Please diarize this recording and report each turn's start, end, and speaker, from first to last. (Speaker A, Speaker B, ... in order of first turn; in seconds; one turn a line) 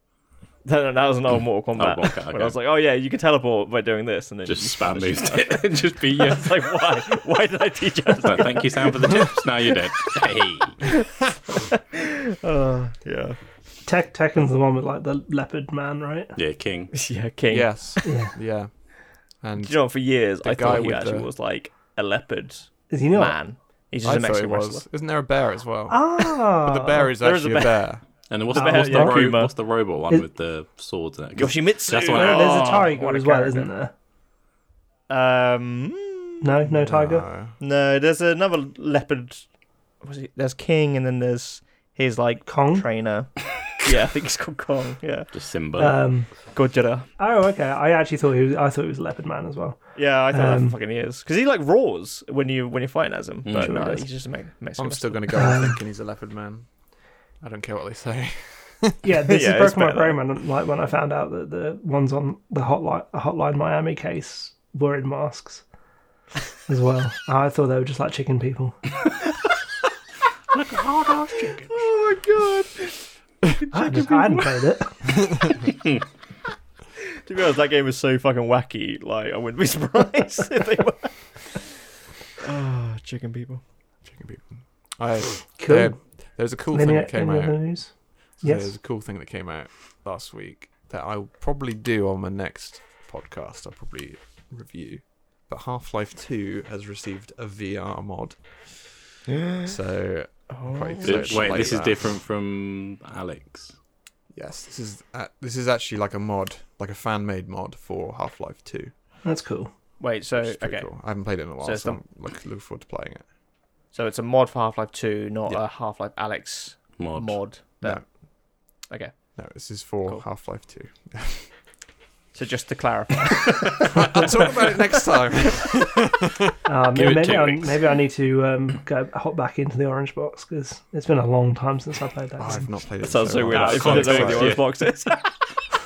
Speaker A: 0.7-9.2
Speaker B: 1.8-2.6
Speaker B: 4.5-6.6
Speaker B: 8.2-10.9
Speaker A: 11.5-13.4
Speaker C: 13.9-16.3
Speaker B: 16.4-17.0
Speaker A: 16.9-17.7
Speaker D: 17.5-18.7
Speaker C: 18.0-18.3
Speaker D: 19.4-21.3
Speaker A: 19.6-24.9
Speaker C: 22.9-23.4
Speaker D: 24.0-28.0
Speaker C: 25.9-27.1
Speaker A: 27.2-27.9
Speaker B: 28.3-32.8
Speaker A: 28.5-29.5
Speaker C: 28.6-29.4
Speaker A: 31.4-33.7
Speaker C: 32.1-33.9
Speaker A: 35.1-36.5
Speaker C: 36.4-37.3
Speaker D: 36.7-37.6
Speaker A: 37.6-39.5
Speaker A: 40.0-45.3
Speaker C: 42.5-42.9
Speaker B: 45.3-46.0
Speaker C: 45.8-46.4
Speaker A: 46.5-47.1
Speaker C: 47.2-50.8
Speaker A: 50.0-55.5
Speaker B: 53.5-53.9
Speaker C: 53.6-54.0
Speaker D: 54.8-56.7
Speaker C: 55.3-55.8
Speaker D: 57.4-59.0
Speaker C: 59.0-65.6
Speaker A: 59.2-60.2
Speaker C: 66.7-68.8
Speaker B: 70.5-71.8
Speaker A: 71.7-74.6
Speaker C: 73.7-75.1
Speaker A: 77.2-81.7
Speaker A: 82.4-83.6
Speaker D: 84.1-87.8
Speaker C: 85.6-86.0
Speaker C: 86.7-88.7
Speaker D: 88.4-99.0
Speaker A: 99.4-99.7
Speaker D: 99.6-102.1
Speaker A: 100.5-101.8
Speaker B: 101.0-103.8
Speaker D: 104.3-108.9
Speaker C: 109.2-109.7
Speaker A: 110.0-112.0
Speaker D: 110.4-113.3
Speaker A: 113.9-118.2
Speaker B: 117.0-117.4
Speaker A: 118.9-119.2
Speaker D: 119.4-121.5
Speaker A: 122.3-124.8
Speaker D: 123.8-126.5
Speaker C: 126.7-132.7
Speaker B: 127.0-127.9
Speaker D: 132.4-134.6
Speaker A: 133.0-135.3
Speaker B: 133.5-134.7